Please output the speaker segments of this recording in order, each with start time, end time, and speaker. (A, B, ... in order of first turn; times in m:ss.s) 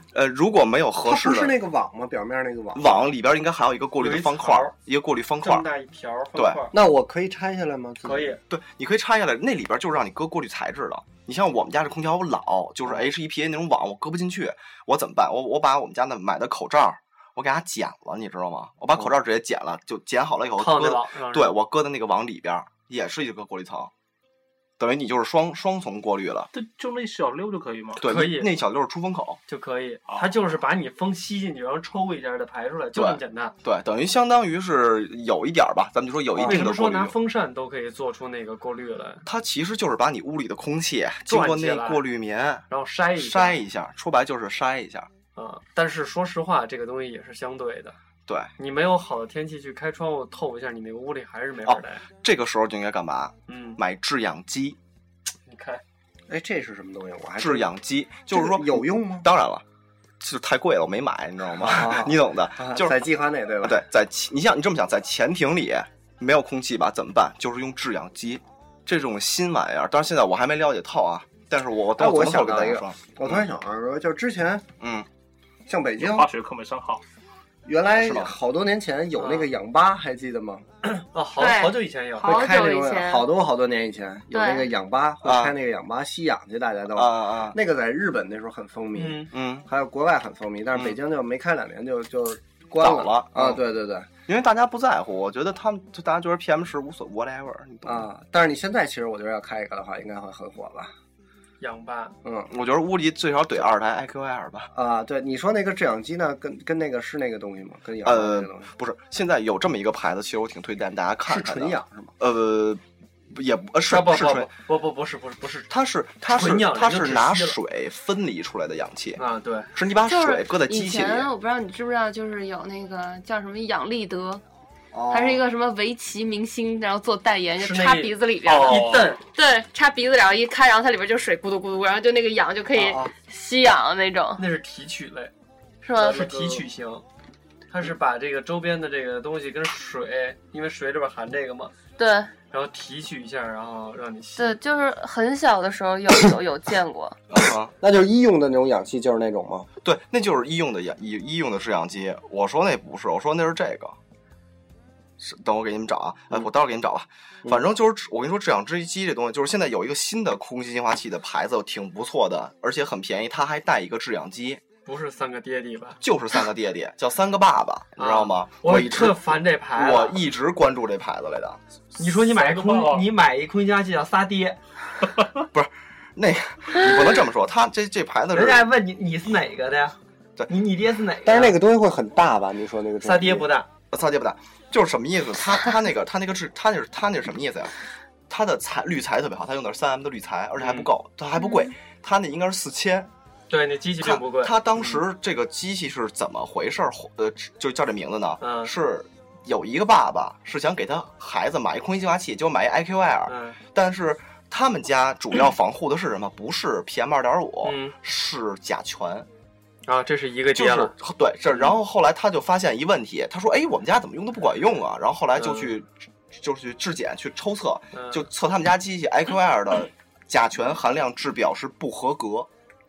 0:00.1-0:01.5 A
0:01.0-0:03.1 B
0:02.8-0:05.7 A
0:04.0-0:04.7 C
0:05.4-0:06.8 C
0:06.3-0:06.6 A
0:06.7-0:08.4 B
0:08.0-0:08.4 C
0:08.5-0:23.9 A
0:20.6-0:21.6 C
0:24.8-0:26.5 A
0:26.5-0:28.0 D
0:28.0-0:29.4 A
0:28.0-0:28.5 C
0:29.5-0:33.5 C
0:32.9-0:37.2 A
0:36.4-0:36.6 B
0:36.4-0:39.2 C
0:39.3-0:45.1 A
0:41.3-0:42.0 C
0:42.7-0:43.6 C
0:45.4-0:48.0 C
0:48.6-0:52.0 C
0:51.7-0:54.8 A
0:53.5-0:53.8 C
0:55.5-0:55.8 C
0:56.3-0:57.7 B
0:57.4-0:59.6 A
0:58.3-0:59.3 B
1:00.2-1:03.0 A
1:01.6-1:03.8 B
1:03.6-1:13.4 A
1:12.0-1:14.7 B
1:14.8-1:15.1 A
1:15.7-1:16.3 B
1:16.0-1:17.0 D
1:17.6-1:20.7 B
1:18.0-1:18.3 A
1:19.2-1:19.5 C
1:21.1-1:22.4 C
1:21.4-1:23.3 E
1:22.2-1:34.1 B
1:24.3-1:24.7 E
1:25.2-1:25.6 A
1:26.9-1:27.6 A
1:29.0-1:29.3 C
1:29.3-1:29.7 A
1:32.8-1:33.6 A
1:34.3-1:38.1 A
1:37.8-1:40.9 B
1:41.6-1:42.2 C
1:42.2-1:42.5 B
1:42.5-1:44.7 A
1:44.7-1:48.7 B
1:48.0-1:54.5 A
1:51.3-1:52.1 B
1:53.9-1:55.7 C
1:55.7-1:59.2 A
1:56.3-1:57.6 C
1:59.2-1:59.7 C
1:59.7-2:01.3 A
2:00.1-2:04.4 E
2:04.9-2:05.4 B
2:05.1-2:14.4 E
2:07.6-2:09.2 C
2:08.4-2:09.2 D
2:12.8-2:13.1 B
2:14.4-2:15.3 C
2:15.8-2:16.6 E
2:15.9-2:17.0 C
2:17.7-2:21.7 C
2:22.0-2:22.3 E
2:22.5-2:24.6 C
2:24.4-2:27.2 E
2:27.3-2:27.7 A
2:27.8-2:29.7 B
2:29.8-2:34.0 A
2:35.2-2:44.6 A
2:44.9-2:46.0 C
2:46.0-2:51.6 A
2:48.0-2:50.2 C
2:52.0-2:54.6 C
2:52.3-2:53.1 D
2:55.5-2:58.7 A
2:58.3-3:00.0 C
3:00.5-3:01.6 C
3:01.2-3:03.5 B
3:03.0-3:03.7 C
3:03.9-3:07.8 A
3:08.3-3:13.1 A
3:10.6-3:10.9 C
3:13.5-3:15.0 C
3:14.0-3:29.3 A
3:18.4-3:18.7 C
3:23.3-3:23.6 C
3:27.6-3:28.0 C
3:29.9-3:30.9 C
3:30.5-3:42.5 A
3:35.4-3:35.7 C
3:37.9-3:38.3 C